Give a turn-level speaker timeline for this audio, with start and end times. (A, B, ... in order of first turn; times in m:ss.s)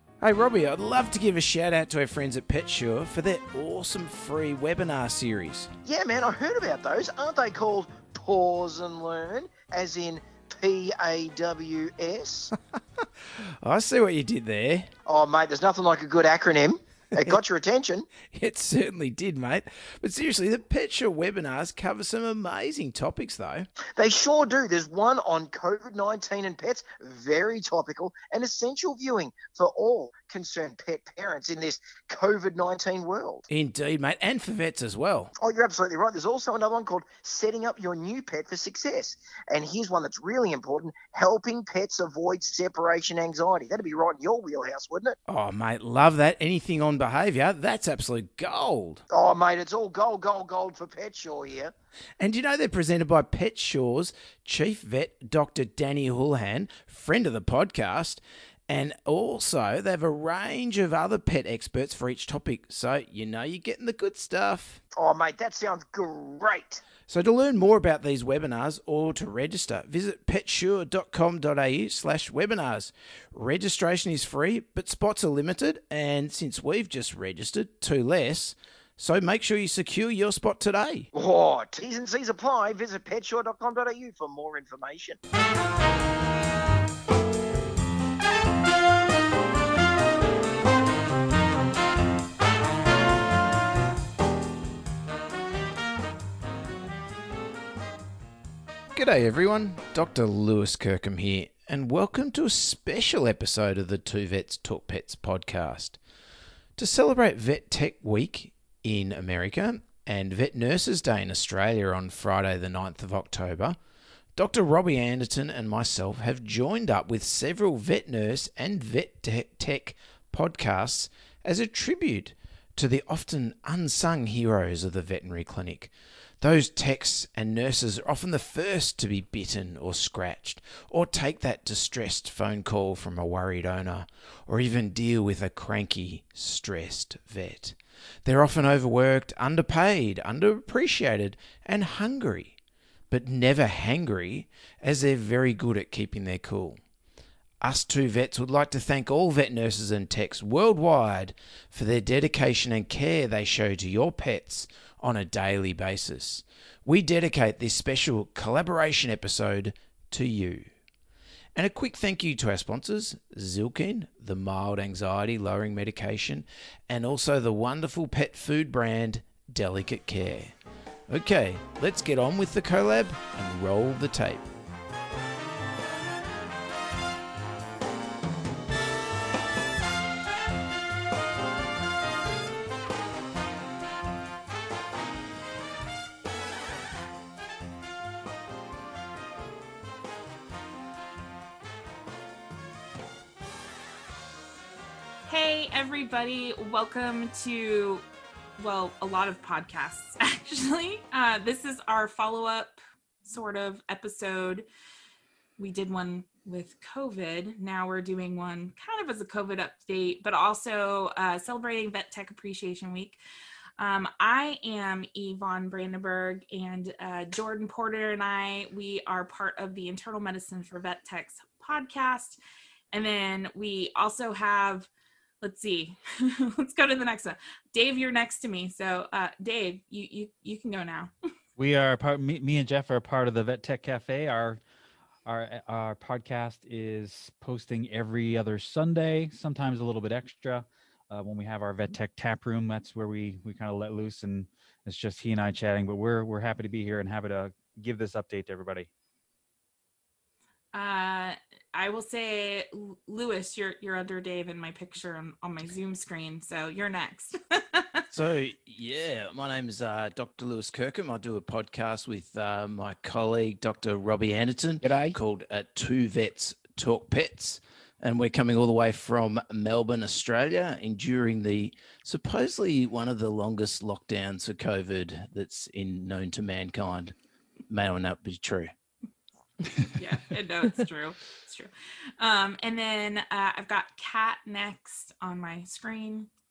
0:00.2-0:05.7 A
0:05.8-0:12.5 B
0:13.4-0:14.9 A
0:15.1-0:18.1 B
0:18.2-0:23.7 A
0:24.0-0:33.4 B
0:33.5-0:35.3 A
0:35.4-0:45.2 B
0:45.3-0:49.0 A
0:49.1-0:51.7 B
0:52.2-1:04.8 A
1:05.0-1:06.8 B
1:07.1-1:21.1 A
1:21.1-1:25.2 B
1:38.9-1:46.0 A
1:46.8-1:53.8 A
1:54.4-2:22.6 A
2:23.1-2:26.8 A
2:27.6-2:40.7 A
2:41.6-2:50.6 A
2:51.1-2:54.5 A
3:15.3-3:18.0 C
3:18.6-3:24.6 C
3:25.6-3:33.2 C
3:33.8-3:42.4 C
3:42.9-3:44.9 C
3:45.4-3:51.1 C
3:51.6-3:54.6 D
3:55.2-4:08.9 D
4:10.7-4:18.0 C
4:18.1-4:37.1 A
4:24.8-4:25.2 B
4:37.7-4:38.7 A
4:40.0-4:46.3 C